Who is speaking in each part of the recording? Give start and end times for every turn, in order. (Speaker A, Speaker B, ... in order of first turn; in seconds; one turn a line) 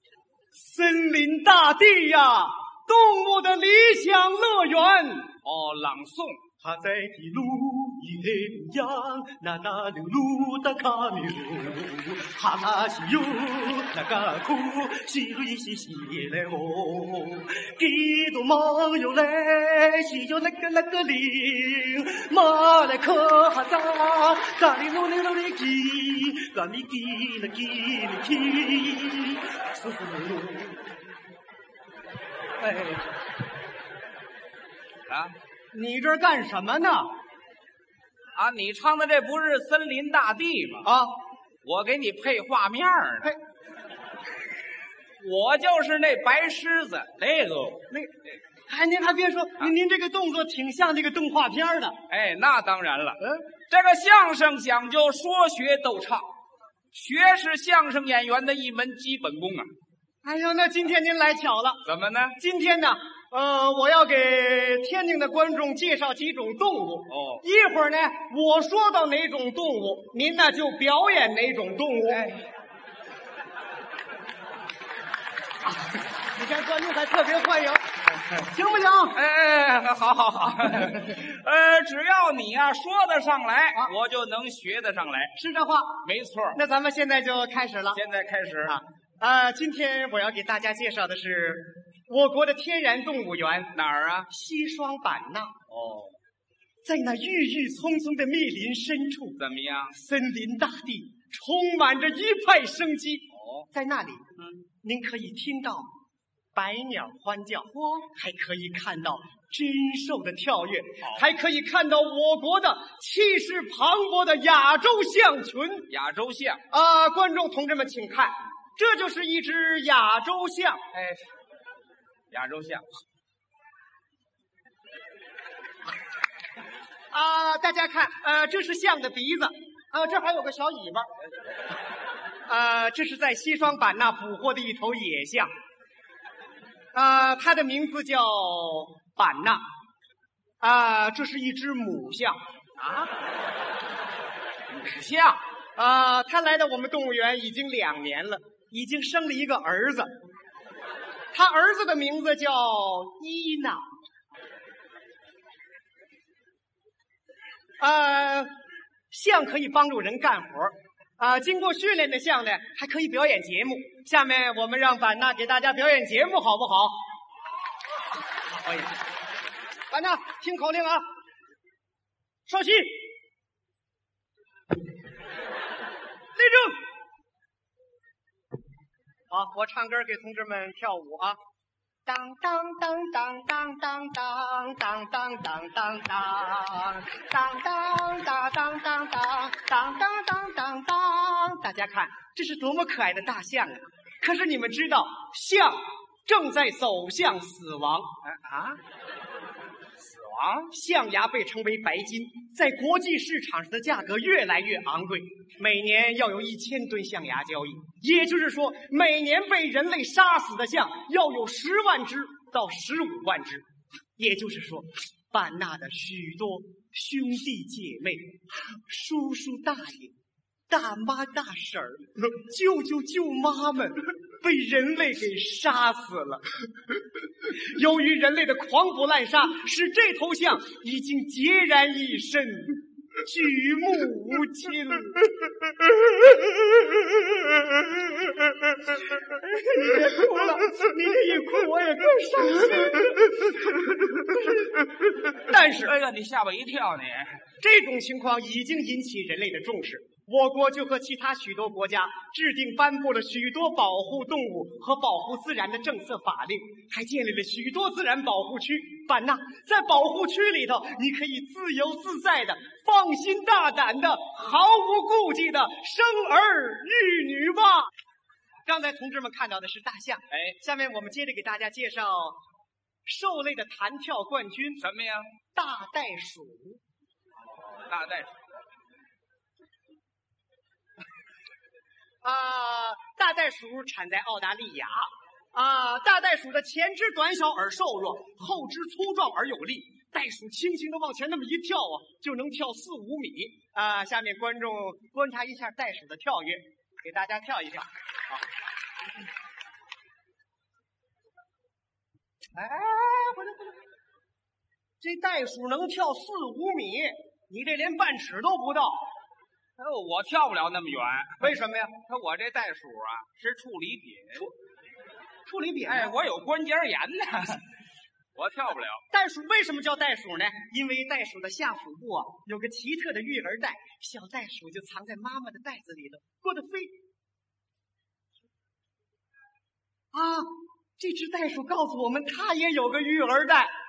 Speaker A: 0.5-5.3
Speaker B: 5.4-6.4
Speaker A: 6.6-30.9
Speaker A: 32.6-33.1
Speaker B: 35.1-35.3
Speaker A: 35.7-37.1
Speaker B: 38.4-40.9
Speaker A: 40.8-41.1
Speaker B: 41.6-43.3
Speaker B: 45.2-47.9
Speaker A: 48.7-52.0
Speaker B: 52.1-56.3
Speaker B: 56.9-59.7
Speaker A: 60.2-61.8
Speaker B: 61.8-62.4
Speaker A: 62.4-72.3
Speaker B: 67.1-67.4
Speaker B: 72.1-72.5
Speaker A: 76.0-79.2
Speaker B: 79.1-85.3
Speaker A: 85.3-88.0
Speaker B: 86.0-86.6
Speaker B: 87.9-88.8
Speaker A: 88.7-93.7
Speaker B: 93.7-94.3
Speaker A: 94.3-95.5
Speaker B: 95.7-96.1
Speaker A: 96.8-99.4
Speaker B: 99.4-100.0
Speaker A: 99.9-104.2
Speaker B: 103.3-103.7
Speaker A: 104.8-105.9
Speaker A: 106.5-115.9
Speaker B: 115.9-116.6
Speaker A: 116.7-120.8
Speaker B: 120.9-121.2
Speaker B: 122.3-122.8
Speaker A: 127.1-131.1
Speaker A: 132.5-135.5
Speaker A: 136.9-139.6
Speaker A: 140.6-143.1
Speaker B: 144.7-145.4
Speaker A: 145.8-150.1
Speaker A: 151.3-153.8
Speaker A: 157.8-158.5
Speaker A: 159.1-166.9
Speaker A: 169.9-171.0
Speaker A: 172.5-173.0
Speaker A: 176.3-176.8
Speaker A: 179.3-181.4
Speaker A: 182.1-198.1
Speaker B: 198.2-198.8
Speaker B: 200.0-200.7
Speaker A: 200.7-213.6
Speaker A: 214.2-220.1
Speaker A: 220.7-226.4
Speaker A: 227.4-235.3
Speaker A: 239.1-245.9
Speaker B: 245.4-247.4
Speaker A: 247.6-267.9
Speaker A: 268.6-272.4
Speaker B: 270.3-270.6
Speaker A: 273.1-274.8
Speaker B: 274.8-275.2
Speaker A: 275.5-276.8
Speaker B: 277.8-278.4
Speaker A: 282.2-298.4
Speaker A: 302.6-303.7
Speaker A: 305.0-309.0
Speaker B: 309.8-314.5
Speaker A: 311.4-311.9
Speaker A: 315.4-316.1
Speaker B: 315.9-317.6
Speaker B: 318.4-319.0
Speaker A: 319.1-326.9
Speaker A: 330.1-333.7